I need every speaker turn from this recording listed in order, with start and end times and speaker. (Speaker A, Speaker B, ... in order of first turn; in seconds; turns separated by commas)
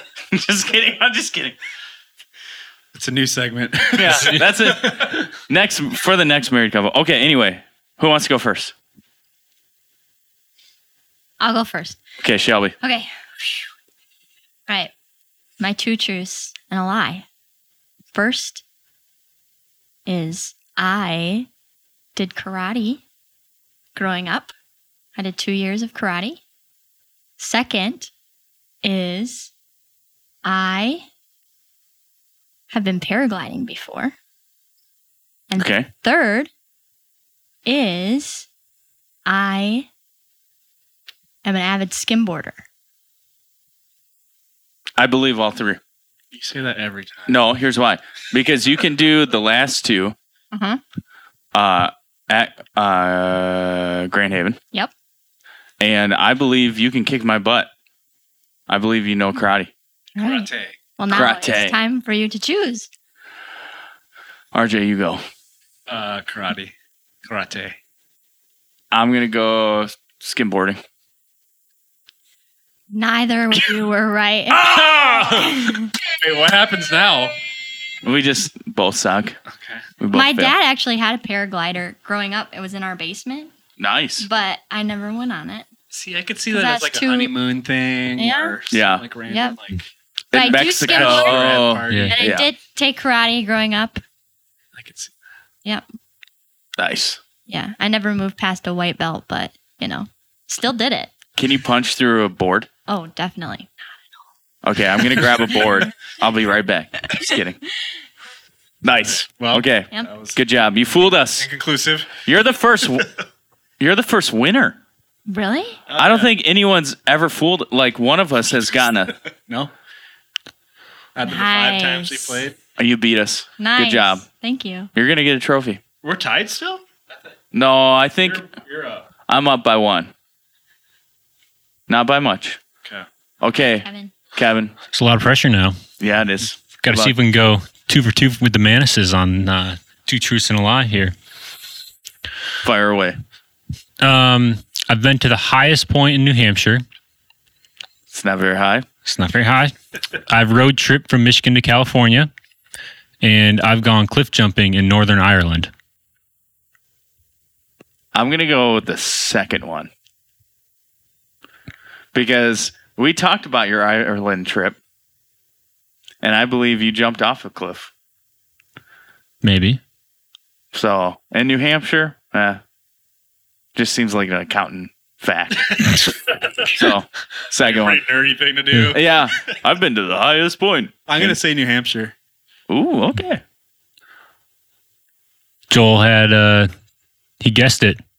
Speaker A: 0.3-1.6, Speaker B: 2.9-5.3, Speaker A: 3.9-8.7, Speaker C: 11.4-12.0, Speaker A: 12.2-12.8, Speaker C: 12.8-13.7, Speaker C: 15.6-17.2, Speaker C: 18.1-18.6, Speaker C: 20.1-21.5, Speaker C: 22.1-23.0, Speaker C: 23.9-24.5, Speaker C: 25.1-26.4, Speaker C: 27.4-28.1, Speaker C: 28.8-29.5, Speaker C: 30.4-31.1, Speaker C: 32.7-34.1, Speaker C: 35.5-36.5, Speaker A: 35.6-35.9, Speaker C: 37.6-38.5, Speaker C: 39.2-39.9, Speaker C: 41.4-42.6, Speaker A: 45.0-45.8, Speaker B: 46.3-47.4, Speaker A: 47.3-50.1, Speaker C: 50.5-50.8, Speaker A: 51.5-54.6, Speaker A: 55.8-57.7, Speaker A: 58.7-59.7, Speaker C: 60.2-62.9, Speaker B: 60.2-60.8, Speaker A: 61.1-61.8, Speaker A: 64.5-65.2, Speaker B: 65.9-66.7, Speaker B: 67.2-67.8, Speaker A: 68.9-70.8, Speaker C: 72.9-75.9, Speaker B: 74.6-77.3, Speaker A: 78.0-79.4, Speaker B: 79.5-79.8, Speaker A: 80.0-80.5, Speaker C: 80.1-83.5, Speaker A: 83.8-84.3, Speaker C: 84.2-85.7, Speaker B: 85.9-89.9, Speaker C: 86.5-87.3, Speaker C: 88.2-88.5, Speaker A: 88.7-89.0, Speaker C: 89.3-89.6, Speaker A: 90.3-92.5, Speaker C: 90.3-94.0, Speaker B: 90.4-92.3, Speaker D: 91.9-92.2, Speaker B: 94.7-95.1, Speaker A: 96.8-97.2, Speaker C: 97.5-101.1, Speaker A: 101.3-102.7, Speaker C: 102.9-103.8, Speaker A: 104.6-107.6, Speaker A: 108.8-111.5, Speaker B: 109.0-110.4, Speaker B: 111.3-112.1, Speaker A: 112.2-113.1, Speaker A: 113.8-114.8, Speaker C: 115.3-115.8, Speaker B: 115.9-116.3, Speaker A: 115.9-119.2, Speaker B: 119.5-119.7, Speaker B: 121.1-122.6, Speaker C: 121.2-122.4, Speaker A: 122.8-124.2, Speaker C: 123.6-124.9, Speaker A: 124.9-125.8, Speaker B: 126.0-126.8, Speaker A: 127.5-128.4, Speaker B: 128.2-129.1, Speaker A: 129.3-130.1, Speaker A: 131.9-132.6, Speaker A: 133.4-134.7, Speaker C: 133.8-134.1, Speaker D: 134.9-135.8, Speaker A: 136.0-137.1, Speaker D: 136.8-141.1, Speaker A: 142.6-143.2, Speaker D: 144.0-146.8, Speaker A: 148.1-148.8, Speaker D: 149.0-149.7, Speaker D: 150.3-152.3, Speaker D: 153.2-155.7, Speaker A: 158.1-159.9, Speaker A: 162.1-164.8, Speaker A: 166.2-167.9, Speaker D: 169.4-169.8, Speaker A: 170.7-172.6, Speaker A: 173.7-176.1, Speaker A: 176.6-178.0, Speaker B: 177.5-179.2, Speaker A: 178.9-181.4, Speaker B: 181.1-182.1, Speaker A: 182.7-183.4, Speaker D: 185.7-186.7, Speaker D: 187.4-188.0